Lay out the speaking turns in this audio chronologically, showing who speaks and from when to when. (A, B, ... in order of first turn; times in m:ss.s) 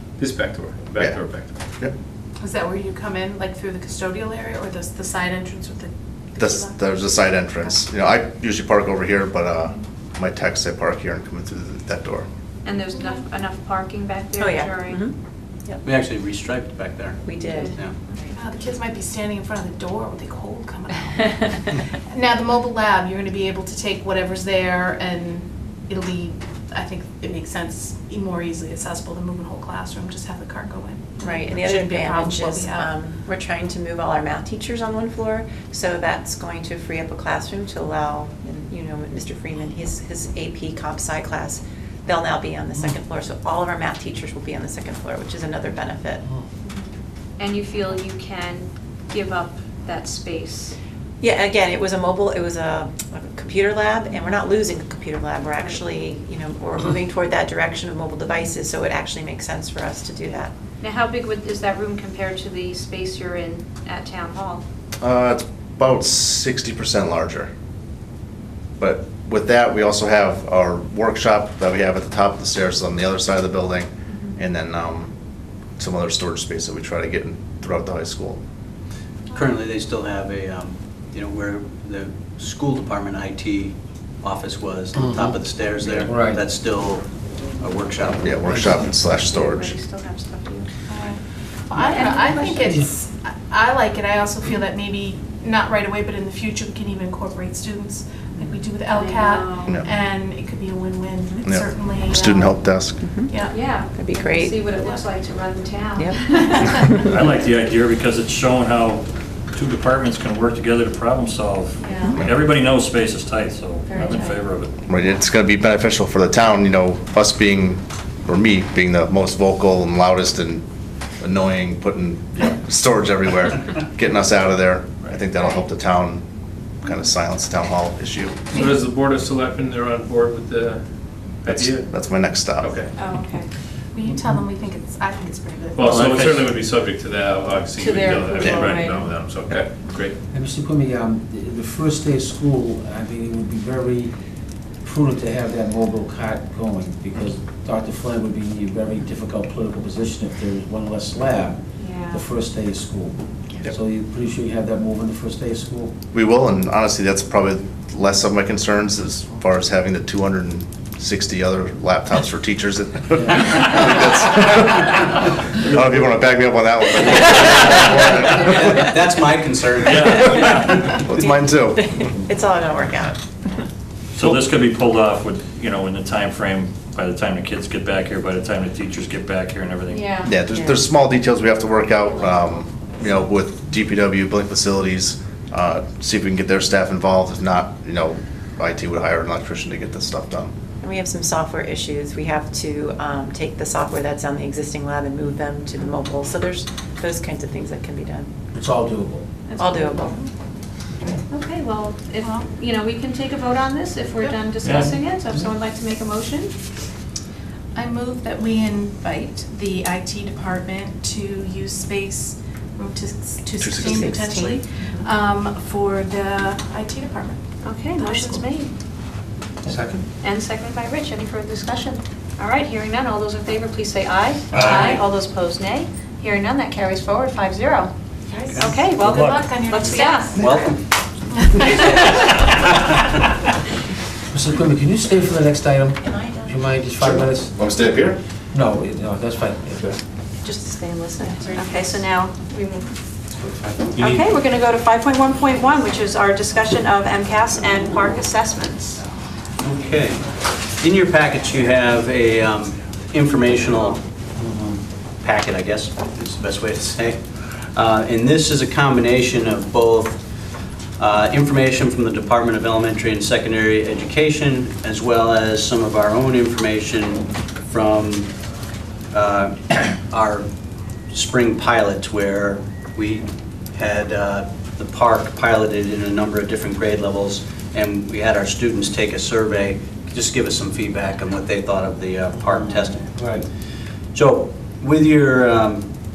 0:00.2-0:01.5 A
0:02.4-0:06.9 B
0:06.4-0:12.2 C
0:12.6-0:15.0 D
0:12.9-0:13.1 B
0:14.4-0:15.1 E
0:15.8-0:18.0 F
0:17.2-0:18.3 E
0:17.4-0:18.2 D
0:18.4-0:32.9 B
0:31.2-0:46.2 E
0:47.4-0:50.8 D
0:51.2-1:00.5 E
1:00.8-1:04.6 D
1:05.0-1:07.5 C
1:08.8-1:15.1 C
1:15.8-1:18.4 C
1:19.3-1:28.4 F
1:24.9-1:25.4 G
1:26.0-1:26.4 G
1:28.1-1:29.8 C
1:28.4-1:29.0 G
1:29.0-1:30.7 D
1:30.9-1:42.5 B
1:31.8-1:32.3 D
1:32.2-1:32.9 G
1:38.9-1:39.8 D
1:41.4-1:43.0 C
1:43.0-1:43.4 E
1:43.3-1:43.6 B
1:43.5-1:46.6 D
1:43.9-1:44.6 E
1:44.7-1:45.0 B
1:46.0-1:47.2 E
1:46.4-1:46.9 B
1:47.0-1:54.7 H
1:51.8-1:52.2 D
1:53.8-1:54.4 D
1:54.9-2:00.6 C
2:01.2-2:06.2 C
2:06.8-2:08.4 C
2:08.6-2:10.8 A
2:11.4-2:11.9 A
2:11.5-2:12.8 C
2:12.6-2:12.9 A
2:13.0-2:13.5 D
2:13.9-2:16.0 B
2:15.8-2:20.2 A
2:15.8-2:16.5 H
2:17.8-2:19.1 D
2:20.3-2:24.1 G
2:24.8-2:31.6 G
2:31.8-2:32.2 D
2:32.1-2:36.0 G
2:36.1-2:48.9 C
2:43.2-2:43.6 G
2:47.2-2:47.7 H
2:47.8-2:50.9 F
2:49.8-2:51.0 H
2:50.3-2:51.8 C
2:51.1-2:53.2 E
2:54.2-3:00.0 H
2:59.9-3:00.3 D
3:00.2-3:10.5 C
3:00.5-3:00.8 E
3:10.8-3:18.3 E
3:18.5-3:19.3 G
3:19.5-3:20.2 D
3:19.6-3:20.3 E
3:21.3-3:26.6 D
3:24.6-3:24.9 H
3:27.7-3:37.4 B
3:33.6-3:34.0 C
3:33.6-3:35.1 E
3:37.6-3:38.7 D
3:37.9-3:38.5 B
3:39.6-3:40.0 G
3:40.2-3:47.9 D
3:44.6-3:45.0 B
3:48.3-3:50.7 B
3:48.6-3:50.4 D
3:48.9-3:49.3 H
3:50.3-3:50.8 F
3:51.3-3:51.7 B
3:51.6-3:53.2 F
3:51.8-3:52.2 D
3:54.3-3:57.5 G
3:56.0-3:56.7 E
3:57.0-3:58.2 C
3:58.5-3:59.9 G
4:00.4-4:02.9 D
4:01.4-4:02.0 E
4:03.3-4:04.2 G
4:04.0-4:09.0 D
4:09.6-4:14.0 F
4:14.4-4:14.8 G
4:15.2-4:20.4 F
4:21.0-4:28.3 F
4:29.1-4:30.5 F
4:31.1-4:43.3 F
4:42.5-4:43.4 G
4:44.1-4:45.9 F